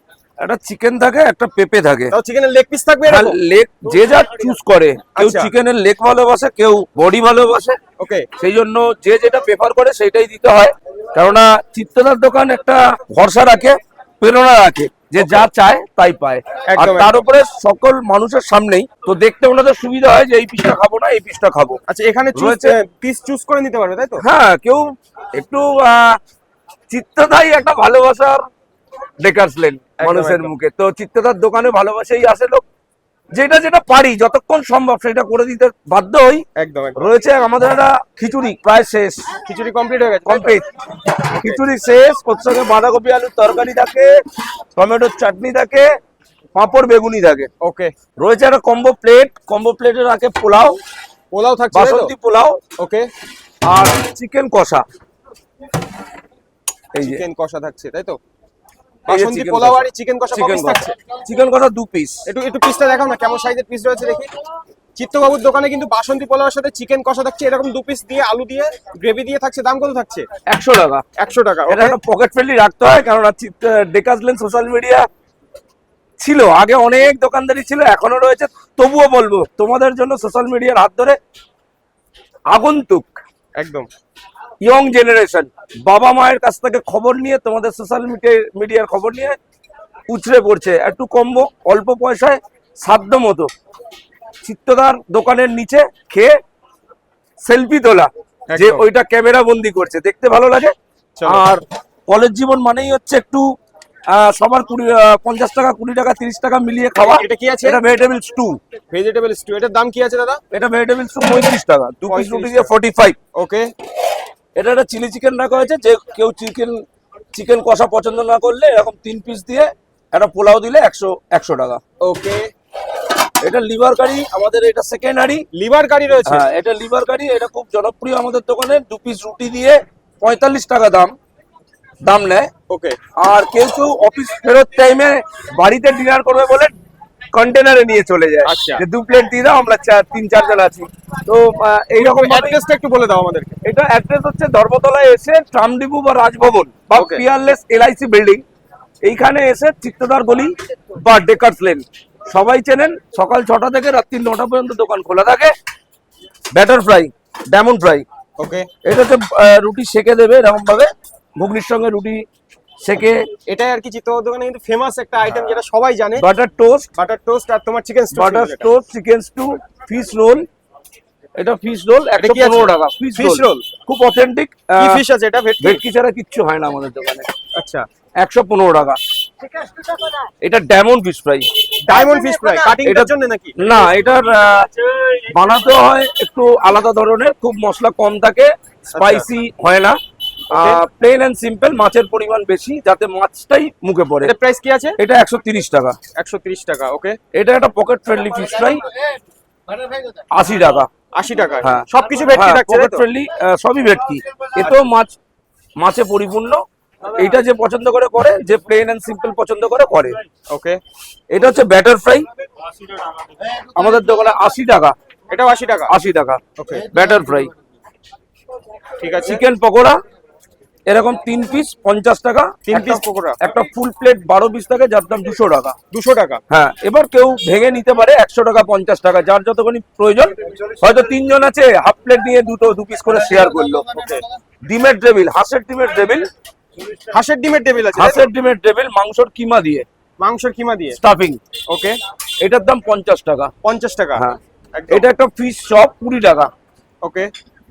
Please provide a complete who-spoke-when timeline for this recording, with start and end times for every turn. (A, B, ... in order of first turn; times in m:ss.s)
0:00.4-0:02.2 A
0:02.1-0:03.4 B
0:03.1-0:07.8 A
0:05.2-0:05.5 B
0:08.0-0:08.3 B
0:08.4-0:21.8 A
0:16.7-0:17.2 B
0:21.9-0:24.2 B
0:22.4-0:22.8 A
0:24.2-0:26.2 A
0:26.9-0:28.5 A
0:29.2-0:32.6 A
0:30.0-0:30.5 B
0:33.4-0:39.3 A
0:36.6-0:37.0 B
0:39.5-0:40.5 B
0:40.3-0:40.6 A
0:41.4-0:44.1 A
0:44.8-0:45.9 A
0:46.6-0:47.5 A
0:47.6-0:47.9 B
0:48.2-0:50.8 A
0:51.3-0:52.1 B
0:51.7-0:52.6 A
0:52.8-0:53.1 B
0:53.6-0:54.8 A
0:57.0-0:57.2 A
0:57.0-0:58.2 B
0:59.1-1:01.0 B
0:59.1-1:02.3 A
1:02.3-1:04.3 B
1:05.0-1:10.3 B
1:10.5-1:11.0 A
1:11.2-1:12.0 B
1:11.7-1:15.1 A
1:16.2-1:21.2 A
1:22.5-1:23.1 A
1:23.6-1:23.9 B
1:24.6-1:29.4 A
1:30.1-1:33.5 A
1:34.4-1:36.4 A
1:37.4-1:40.7 A
1:38.5-1:38.8 B
1:41.2-1:41.5 B
1:41.2-1:43.5 A
1:44.1-1:48.6 A
1:47.0-1:47.8 B
1:48.9-1:50.4 B
1:50.5-1:53.2 A
1:52.1-1:52.7 B
1:53.4-1:53.7 B
1:54.6-1:56.8 A
1:57.3-2:01.8 A
2:02.0-2:02.5 B
2:03.4-2:05.4 A
2:05.5-2:06.5 B
2:06.3-2:11.1 A
2:12.0-2:12.5 A
2:12.7-2:13.0 B
2:13.2-2:16.7 A
2:17.3-2:22.6 A
2:18.4-2:18.8 B
2:22.0-2:23.6 B
2:23.6-2:28.4 A
2:26.9-2:27.2 B
2:29.0-2:35.5 A
2:36.5-2:38.1 A
2:38.4-2:38.7 B
2:38.8-2:42.2 A
2:42.8-2:43.3 A
2:43.5-2:46.2 B
2:46.2-2:46.9 A
2:47.0-2:48.7 B
2:48.1-2:50.4 A
2:51.4-2:55.0 A
2:52.2-2:53.7 B
2:54.8-2:55.8 B
2:55.6-2:57.3 A
2:57.6-2:57.9 B
2:58.2-2:59.0 A
3:00.4-3:02.0 A
3:01.8-3:03.6 B
3:02.8-3:10.0 A
3:09.0-3:09.3 B
3:10.5-3:14.3 A
3:10.5-3:10.8 B
3:14.2-3:15.0 B
3:15.0-3:16.0 A
3:16.2-3:17.2 B
3:17.3-3:18.8 A
3:20.3-3:20.9 A
3:21.2-3:23.0 B
3:21.6-3:25.2 A
3:25.8-3:30.2 A
3:30.5-3:30.8 B
3:31.3-3:32.3 A
3:33.7-3:35.0 A
3:35.3-3:35.9 B
3:35.9-3:36.4 A
3:36.6-3:36.9 B
3:36.9-3:37.5 A
3:39.0-3:39.4 B
3:39.2-3:40.0 A
3:40.9-3:45.8 A
3:42.7-3:43.4 B
3:45.9-3:46.4 B
3:46.5-3:54.1 A
3:53.9-3:54.2 B
3:54.7-3:56.3 A
3:57.1-3:58.3 B
3:57.9-3:59.9 A
4:00.2-4:01.0 B
4:00.9-4:01.4 A
4:01.7-4:02.0 B
4:02.4-4:03.5 A
4:03.6-4:04.2 B
4:04.8-4:05.0 B
4:04.9-4:06.5 A
4:07.0-4:07.3 B